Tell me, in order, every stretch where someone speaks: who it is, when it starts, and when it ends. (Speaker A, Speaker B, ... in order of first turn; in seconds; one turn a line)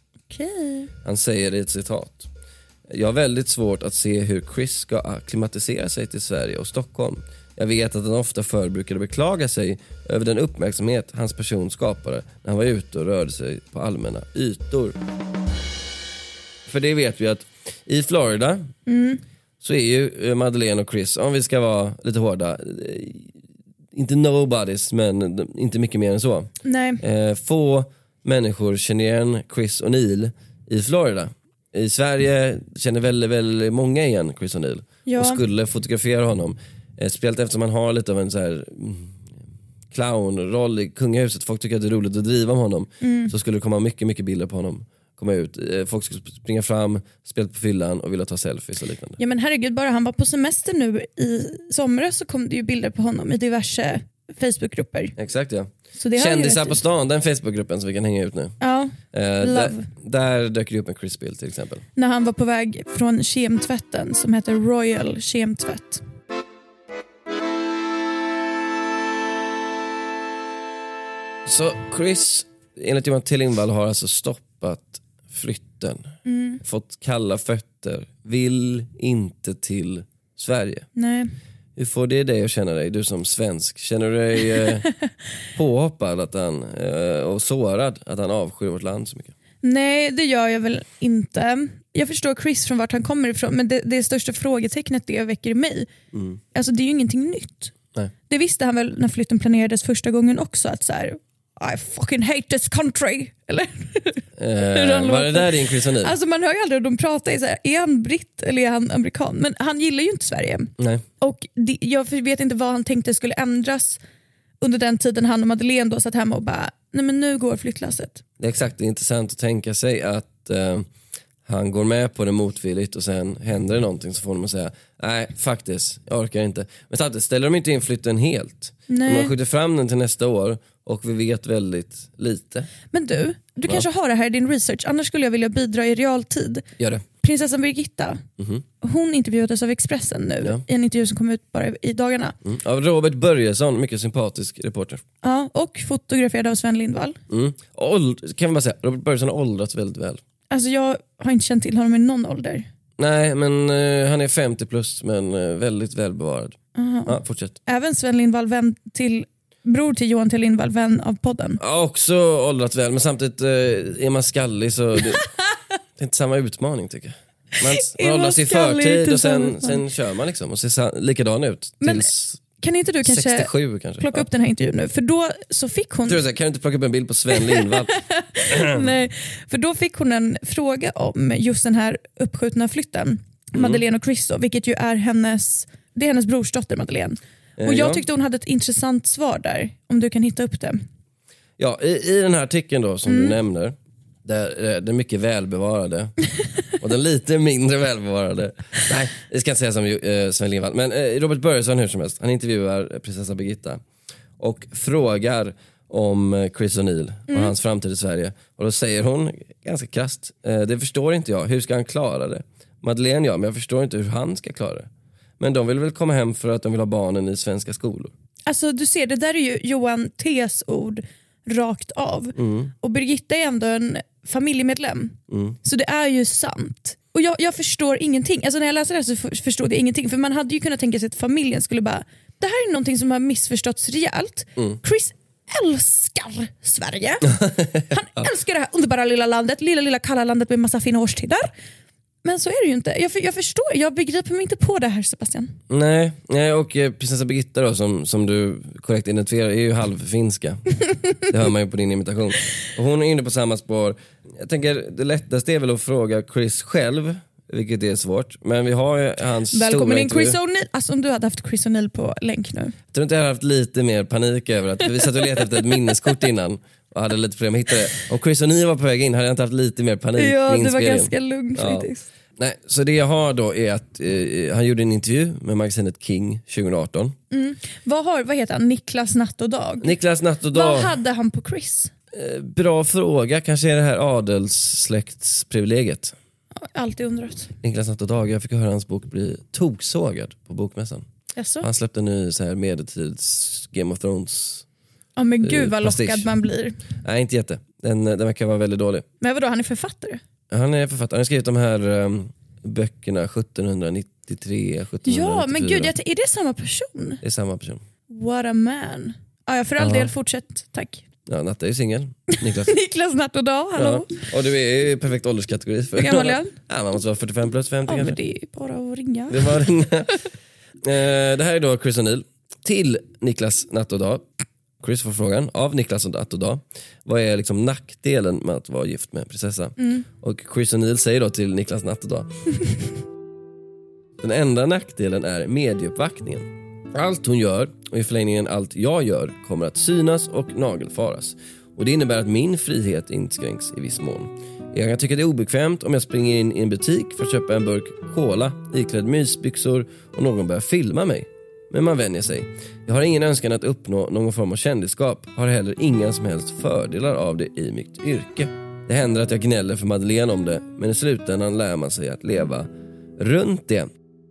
Speaker A: 0.3-0.9
Speaker B: 1.0-2.3
Speaker B: 2.9-14.9
Speaker B: 16.6-18.7
Speaker A: 18.9-19.2
Speaker B: 19.6-23.3
Speaker B: 23.9-39.2
Speaker A: 26.6-27.0
Speaker A: 35.0-35.4
Speaker B: 39.9-49.2
Speaker A: 43.0-43.3
Speaker A: 49.2-55.1
Speaker B: 55.2-58.5
Speaker A: 56.0-56.8
Speaker A: 58.6-59.9
Speaker B: 59.1-61.8
Speaker A: 62.0-66.0
Speaker B: 71.4-76.1
Speaker A: 76.2-76.6
Speaker B: 76.6-80.8
Speaker A: 81.0-81.3
Speaker B: 81.8-84.8
Speaker B: 85.5-89.3
Speaker A: 89.6-95.9
Speaker B: 96.1-96.4
Speaker A: 96.5-97.7
Speaker A: 98.3-114.0
Speaker B: 104.4-106.1
Speaker B: 110.8-111.0
Speaker A: 114.6-118.2
Speaker B: 118.4-120.9
Speaker B: 121.4-132.7
Speaker A: 128.9-129.3
Speaker A: 132.9-136.7
Speaker B: 136.8-137.0
Speaker A: 137.2-138.2
Speaker B: 138.4-138.6
Speaker A: 138.8-142.3
Speaker B: 142.4-145.0
Speaker A: 145.2-147.2
Speaker B: 147.3-150.2
Speaker A: 150.5-152.7
Speaker B: 153.0-157.6
Speaker A: 156.7-161.6
Speaker B: 161.6-165.2
Speaker B: 166.0-172.4
Speaker A: 167.7-169.8
Speaker A: 171.8-172.1
Speaker A: 172.6-176.2
Speaker B: 173.0-174.3
Speaker B: 176.1-177.9
Speaker A: 177.3-190.8
Speaker B: 178.5-178.9
Speaker B: 183.5-183.8
Speaker B: 187.6-188.0
Speaker B: 191.6-196.1
Speaker A: 193.1-193.3
Speaker B: 196.8-203.8
Speaker B: 204.4-218.1
Speaker A: 218.4-241.5
Speaker B: 222.3-222.7
Speaker B: 225.3-225.6
Speaker B: 237.3-238.2
Speaker A: 242.2-245.5
Speaker B: 245.7-250.6
Speaker B: 251.3-260.4
Speaker A: 259.5-262.7
Speaker B: 262.9-277.1
Speaker A: 270.2-272.1
Speaker A: 277.3-279.9
Speaker B: 279.8-280.9
Speaker A: 280.5-281.9
Speaker B: 282.1-286.1
Speaker A: 286.6-287.5
Speaker B: 287.6-291.1
Speaker A: 291.3-291.7
Speaker B: 291.6-294.6
Speaker A: 295.1-296.8
Speaker B: 295.4-296.3
Speaker B: 297.0-299.1
Speaker A: 299.2-300.2
Speaker B: 300.5-305.9
Speaker A: 305.0-307.2
Speaker B: 307.2-307.8
Speaker A: 308.1-311.0
Speaker B: 309.8-310.1
Speaker B: 311.3-312.7
Speaker A: 312.3-314.2
Speaker B: 313.8-318.2
Speaker A: 315.9-316.5
Speaker A: 317.9-319.6
Speaker B: 319.3-320.2
Speaker B: 320.8-324.2
Speaker B: 324.8-332.3
Speaker A: 329.8-330.0
Speaker B: 334.2-363.9